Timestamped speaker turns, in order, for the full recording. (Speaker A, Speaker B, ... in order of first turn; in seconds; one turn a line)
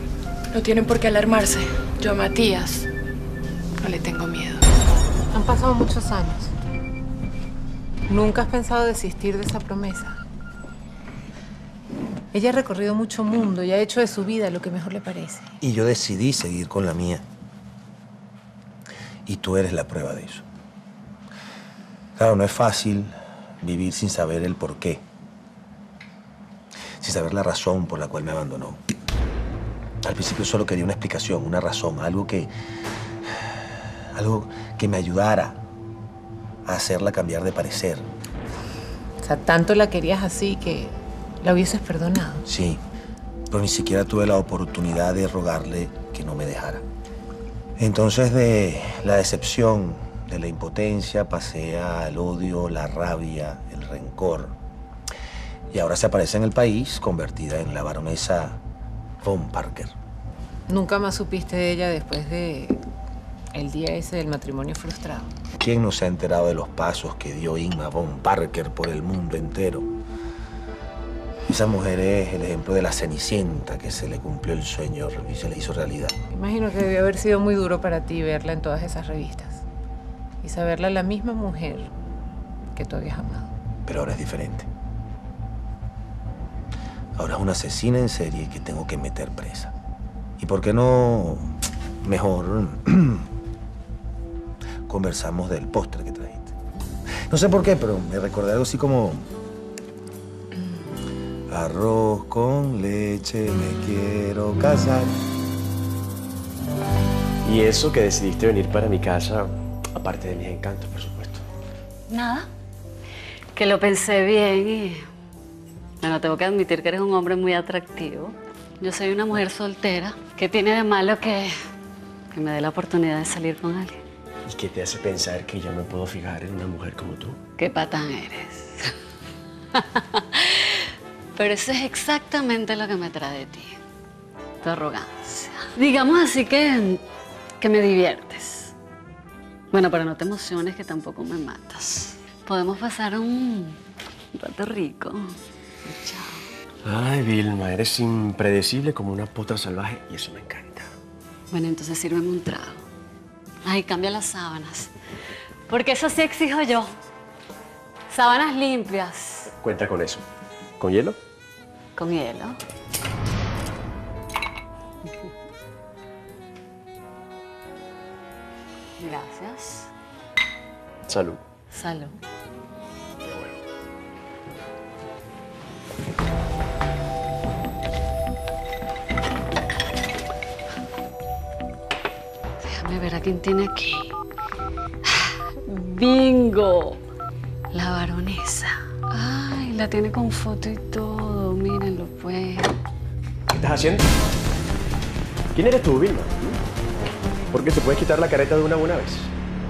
Speaker A: 0.5-2.9
Speaker A: 3.8-4.7
Speaker B: 5.3-6.5
Speaker B: 8.1-10.2
Speaker B: 12.3-15.5
Speaker C: 15.6-17.2
Speaker C: 19.2-20.4
Speaker C: 22.1-25.0
Speaker C: 27.0-28.8
Speaker C: 30.0-32.5
Speaker C: 34.1-35.6
Speaker C: 36.6-38.0
Speaker B: 39.2-42.4
Speaker C: 42.5-42.8
Speaker C: 43.5-46.8
Speaker C: 47.8-54.5
Speaker C: 55.7-58.6
Speaker C: 59.2-59.9
Speaker B: 60.7-62.8
Speaker B: 63.5-65.3
Speaker C: 65.6-69.9
Speaker C: 71.5-76.1
Speaker B: 76.3-79.6
Speaker B: 80.4-81.9
Speaker B: 82.7-83.5
Speaker C: 83.8-84.7
Speaker C: 87.2-89.7
Speaker C: 90.4-93.2
Speaker C: 94.9-96.5
Speaker C: 97.3-99.3
Speaker C: 101.5-105.1
Speaker D: 107.4-111.4
Speaker E: 112.1-112.5
Speaker E: 113.5-115.1
Speaker E: 116.0-121.5
Speaker E: 122.3-124.0
Speaker D: 124.5-127.4
Speaker E: 127.6-128.9
Speaker E: 129.8-130.7
Speaker E: 131.3-133.8
Speaker E: 134.6-137.0
Speaker E: 137.6-138.7
Speaker E: 139.7-143.8
Speaker E: 144.3-146.5
Speaker D: 146.8-150.9
Speaker E: 151.5-152.8
Speaker E: 153.6-154.9
Speaker E: 155.7-156.9
Speaker E: 158.1-159.5
Speaker D: 159.5-160.2
Speaker D: 160.8-161.2
Speaker E: 161.9-162.6
Speaker E: 169.0-169.9
Speaker D: 171.1-171.4
Speaker E: 171.7-172.1
Speaker E: 182.6-184.1
Speaker E: 185.1-187.0
Speaker E: 187.7-192.7
Speaker D: 193.5-194.1
Speaker D: 195.5-196.6
Speaker D: 197.5-199.3